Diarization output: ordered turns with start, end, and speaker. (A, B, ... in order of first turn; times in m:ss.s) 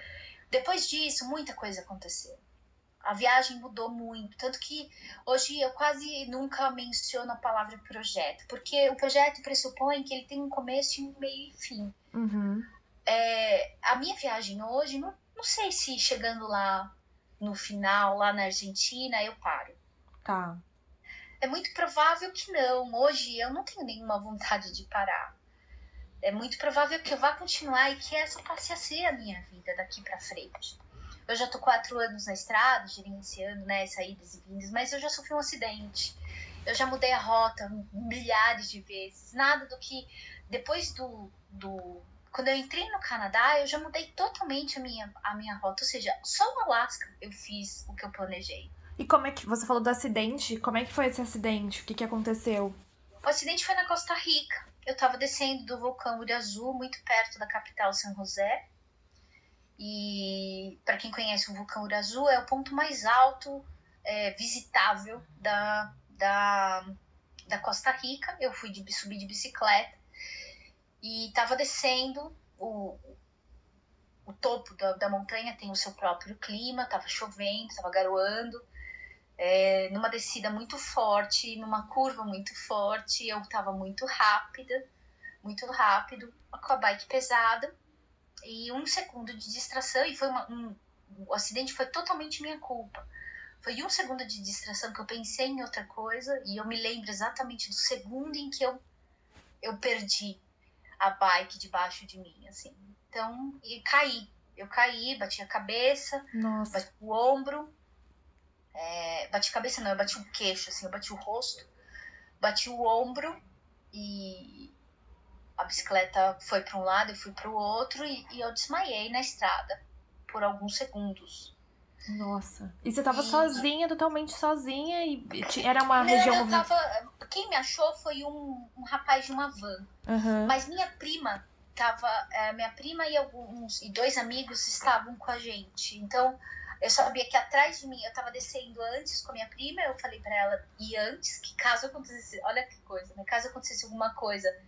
0:00.5-0:02.4 A
0:03.0-0:11.9 A
0:12.1-0:12.7 B
0:13.1-0:19.8 A
0:20.2-0:20.6 B
0:21.4-0:25.3 A
0:26.2-0:48.7 A
0:49.0-0:52.8 B
0:53.2-0:58.6 A
0:59.8-1:07.0 A
1:07.5-1:10.0 A
1:11.0-1:13.2 A
1:14.2-1:18.6 A
1:19.4-1:24.8 A
1:25.4-1:27.7 A
1:28.4-1:33.0 A
1:33.6-1:38.8 A
1:39.6-1:40.4 A
1:41.0-1:47.7 A
1:46.3-1:46.8 B
1:48.7-1:51.7 A
1:52.4-1:53.4 A
1:53.9-1:54.7 A
1:55.6-2:01.5 A
2:02.1-2:06.7 B
2:03.1-2:03.6 A
2:06.0-2:09.9 A
2:10.1-2:10.5 B
2:10.4-2:24.5 A